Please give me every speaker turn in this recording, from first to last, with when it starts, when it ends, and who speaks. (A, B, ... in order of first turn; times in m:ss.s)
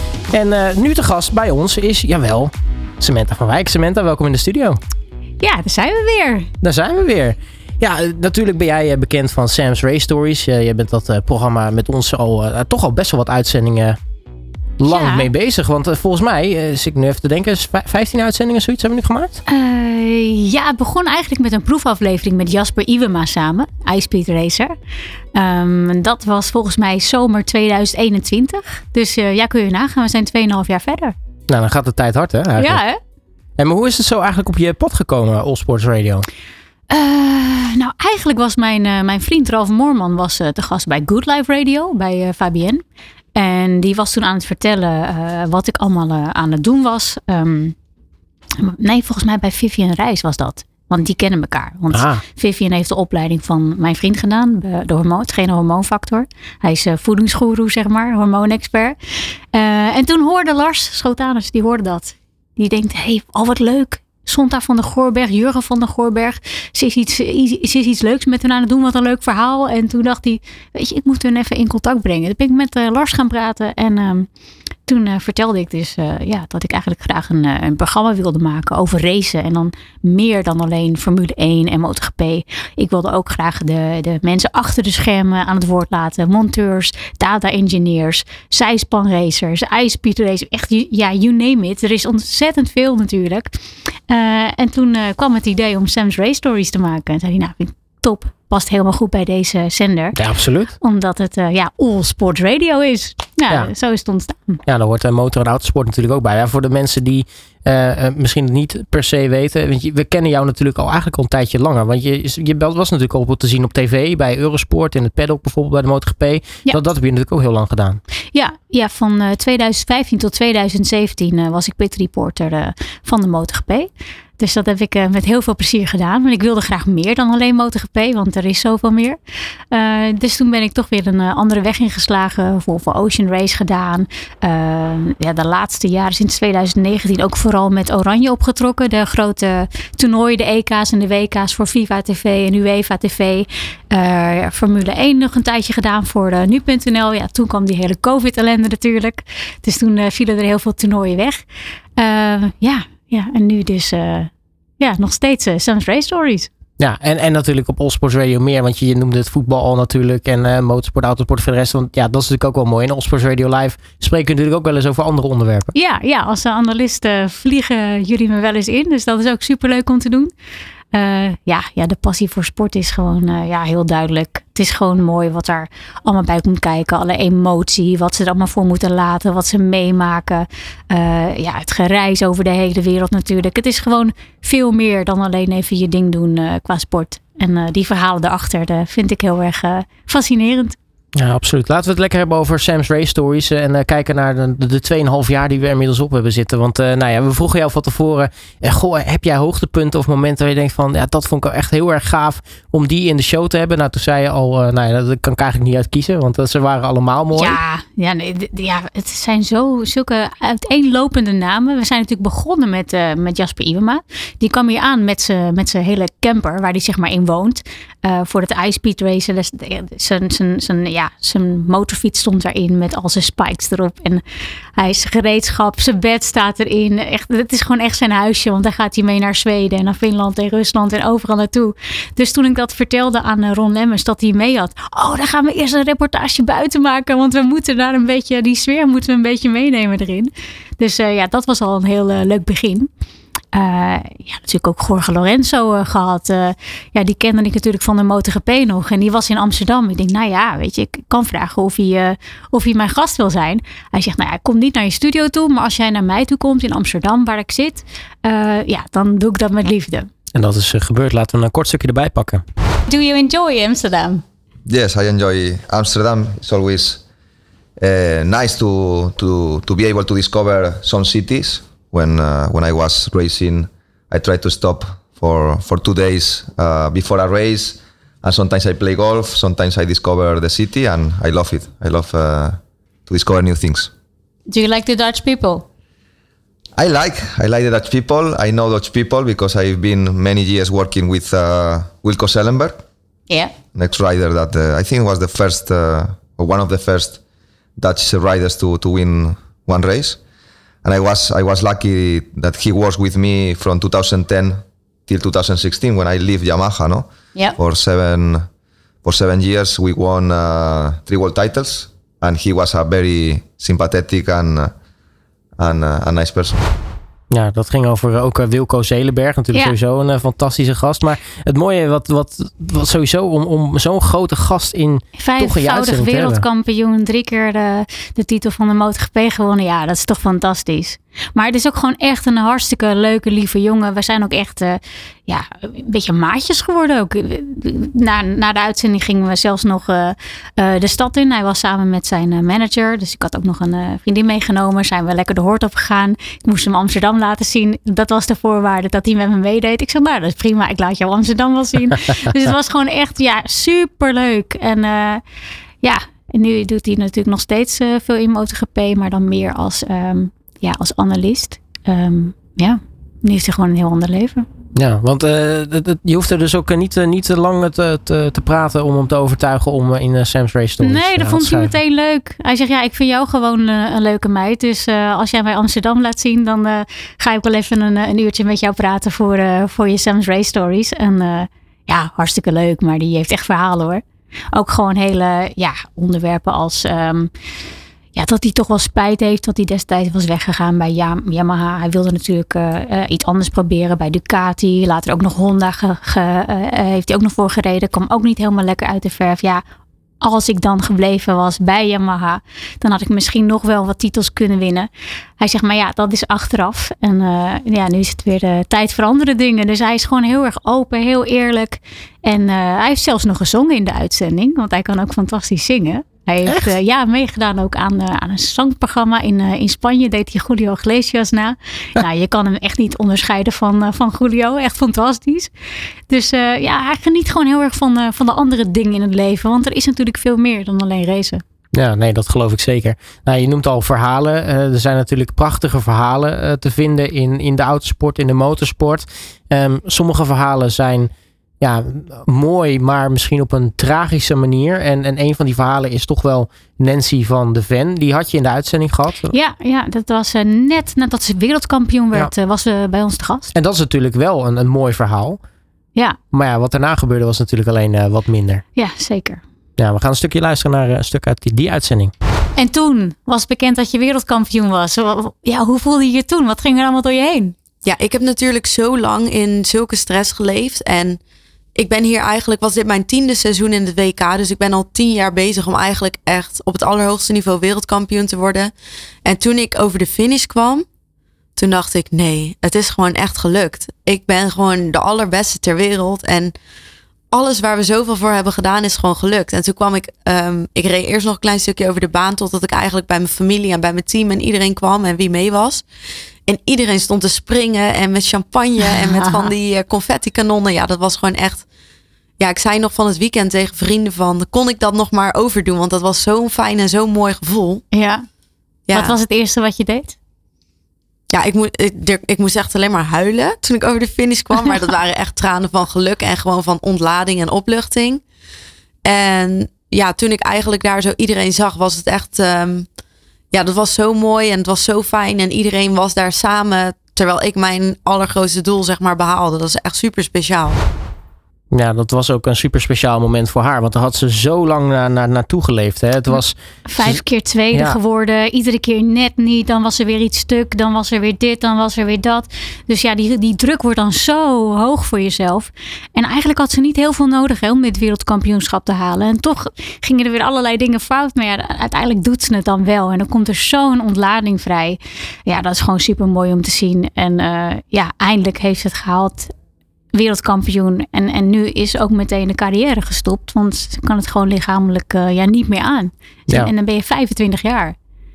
0:00.3-0:04.8 A
0:05.4-0:06.5 B
0:06.6-0:14.0 A
0:14.8-0:19.4 A
0:14.9-0:15.3 B
0:19.5-0:24.8 B
0:25.4-0:31.2 B
0:31.5-0:32.8 A
0:32.6-0:33.0 B
0:33.6-0:36.3 A
0:36.9-0:42.8 B
0:43.4-0:47.8 B
0:48.6-1:14.3 B
0:51.9-0:52.2 A
1:14.9-1:33.5 B
1:34.1-1:40.2 B
1:40.1-1:40.7 A
1:40.8-1:44.6 B
1:44.7-1:58.0 A
1:58.3-2:09.2 B
2:09.7-2:31.5 B
2:32.0-2:36.5 B
2:36.8-2:45.7 A
2:45.7-2:50.3 B
2:50.9-3:10.8 B
3:11.2-3:27.6 A
3:27.3-3:44.2 B
3:44.8-4:02.9 B
4:03.5-4:20.1 B
4:20.3-4:22.4 A
4:22.9-4:24.2 B
4:24.7-4:27.0 C
4:27.8-4:43.9 C
4:44.5-4:45.7 B
4:46.8-4:52.8 C
4:53.8-4:57.2 C
4:57.8-5:00.2 C
5:00.8-5:08.5 C
5:09.0-5:14.7 C
5:15.6-5:16.6 C
5:17.3-5:26.4 A
5:25.2-5:55.2 B
5:55.8-6:04.5 B
6:04.8-6:11.8 A
6:10.8-6:27.3 B
6:28.2-6:39.6 B
6:40.2-7:05.5 B
7:06.1-7:11.4 B
7:11.7-7:29.4 A
7:29.3-7:33.5 B
7:33.5-7:35.4 A
7:36.3-7:38.6 A
7:38.8-7:39.4 B
7:39.8-7:42.1 A
7:42.6-7:47.6 B
7:47.8-7:51.2 D
7:51.8-7:58.7 D
7:59.2-8:00.9 D
8:01.6-8:06.6 D
8:07.3-8:15.8 D
8:16.5-8:21.7 D
8:18.9-8:19.5 B
8:22.4-8:27.8 D
8:27.9-8:28.3 B
8:28.9-8:29.2 D
8:28.9-8:30.2 B
8:31.3-8:38.2 D
8:39.0-8:42.9 D
8:43.5-8:50.8 D
8:51.7-8:58.0 A
8:56.9-9:19.5 B
9:20.1-9:28.0 B